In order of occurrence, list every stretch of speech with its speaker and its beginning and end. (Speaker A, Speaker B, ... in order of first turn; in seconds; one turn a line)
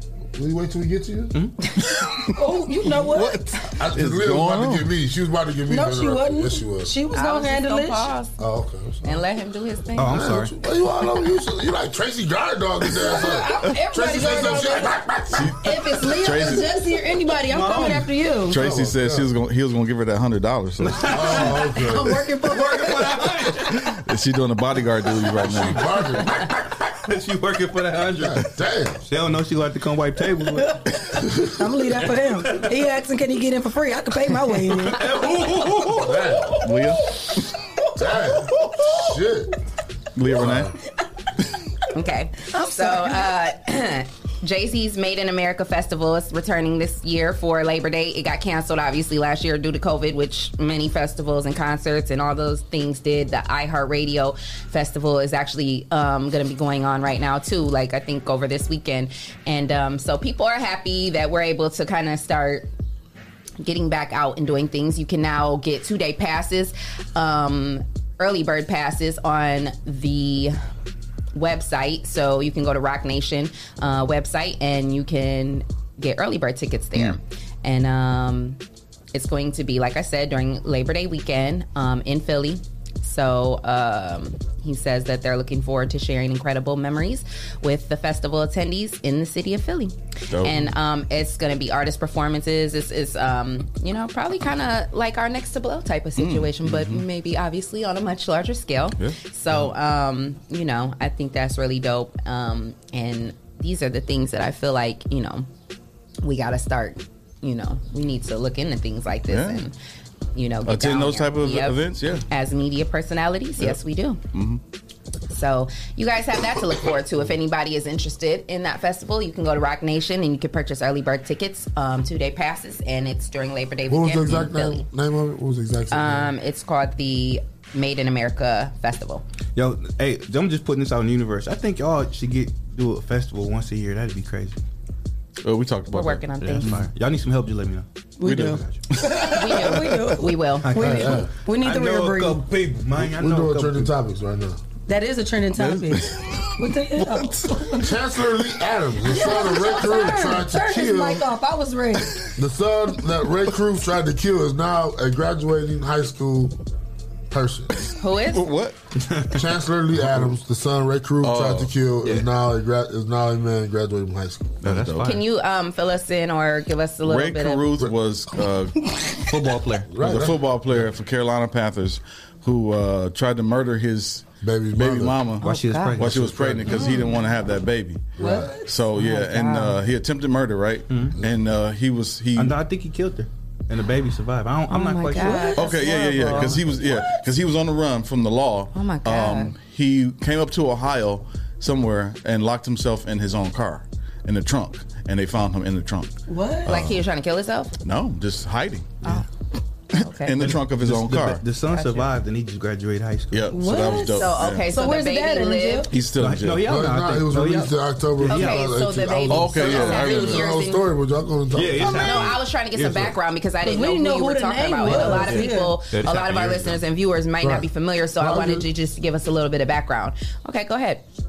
Speaker A: 0.3-1.3
Speaker B: 2.2-3.5
Speaker C: 3.0-4.9
Speaker A: 3.8-6.9
Speaker B: 5.7-8.1
Speaker D: 7.1-8.3
Speaker A: 8.4-9.2
Speaker D: 9.0-10.2
Speaker E: 9.9-10.5
Speaker A: 10.1-15.5
Speaker B: 13.0-14.9
Speaker C: 15.3-16.7
Speaker B: 15.6-18.6
Speaker E: 17.5-18.1
Speaker C: 18.5-21.5
Speaker A: 18.6-19.3
Speaker E: 20.8-21.7
Speaker A: 21.0-22.2
Speaker B: 21.7-23.1
Speaker E: 22.4-23.7
Speaker C: 23.7-25.8
Speaker A: 25.4-26.6
Speaker E: 27.1-28.4
Speaker A: 28.2-29.0
Speaker E: 29.1-30.8
Speaker B: 31.6-35.0
Speaker E: 34.6-36.5
Speaker A: 35.9-36.5
Speaker C: 36.6-37.2
Speaker A: 38.0-39.5
Speaker C: 40.1-40.7
Speaker A: 40.4-40.7
Speaker D: 41.9-62.7
Speaker B: 42.5-43.2
Speaker D: 63.6-70.5
Speaker D: 71.3-78.6
Speaker D: 79.1-105.5
Speaker C: 90.3-90.7
Speaker C: 96.2-97.0
Speaker C: 99.0-99.7
Speaker D: 106.2-109.7
Speaker C: 109.3-109.7
Speaker D: 110.3-114.2
Speaker C: 110.6-112.2
Speaker C: 114.3-114.6
Speaker D: 115.3-124.8
Speaker A: 123.9-126.3
Speaker D: 125.9-129.2
Speaker E: 129.6-134.6
Speaker C: 135.4-136.9
Speaker D: 135.9-136.7
Speaker E: 136.4-138.8
Speaker B: 138.2-142.4
Speaker C: 138.2-139.8
Speaker D: 139.3-141.0
Speaker E: 140.6-143.9
Speaker A: 140.8-141.3
Speaker A: 142.9-144.6
Speaker B: 144.9-147.9
Speaker C: 145.6-146.5
Speaker A: 147.8-151.2
Speaker B: 149.1-152.2
Speaker A: 152.3-156.6
Speaker A: 157.3-157.7
Speaker D: 158.0-158.5
Speaker C: 158.3-158.7
Speaker E: 159.1-159.5
Speaker A: 159.3-164.6
Speaker C: 161.2-161.7
Speaker E: 164.6-165.2
Speaker C: 164.6-165.1
Speaker D: 165.0-167.8
Speaker C: 167.0-168.9
Speaker E: 169.3-169.9
Speaker A: 169.9-170.4
Speaker C: 170.0-182.6
Speaker A: 174.4-175.2
Speaker D: 175.4-176.0
Speaker E: 175.4-176.3
Speaker A: 176.0-176.8
Speaker B: 176.8-177.1
Speaker A: 178.2-178.5
Speaker B: 178.2-178.6
Speaker D: 178.9-179.8
Speaker E: 180.9-181.2
Speaker E: 182.3-185.4
Speaker D: 184.7-186.8
Speaker B: 185.1-186.6
Speaker C: 185.6-196.1
Speaker D: 188.7-189.6
Speaker B: 196.3-196.7
Speaker D: 196.6-197.7
Speaker C: 196.7-197.0
Speaker C: 197.8-199.2
Speaker D: 199.9-200.4
Speaker C: 200.2-201.4
Speaker E: 200.4-203.5
Speaker D: 201.7-202.1
Speaker C: 203.3-204.6
Speaker B: 203.5-205.9
Speaker D: 204.0-205.9
Speaker C: 205.9-206.8
Speaker E: 205.9-208.7
Speaker A: 206.6-212.3
Speaker D: 208.3-210.8
Speaker C: 209.3-210.6
Speaker E: 211.5-213.2
Speaker D: 211.8-221.0
Speaker B: 213.6-215.8
Speaker E: 215.9-216.8
Speaker A: 217.4-217.7
Speaker A: 218.2-218.7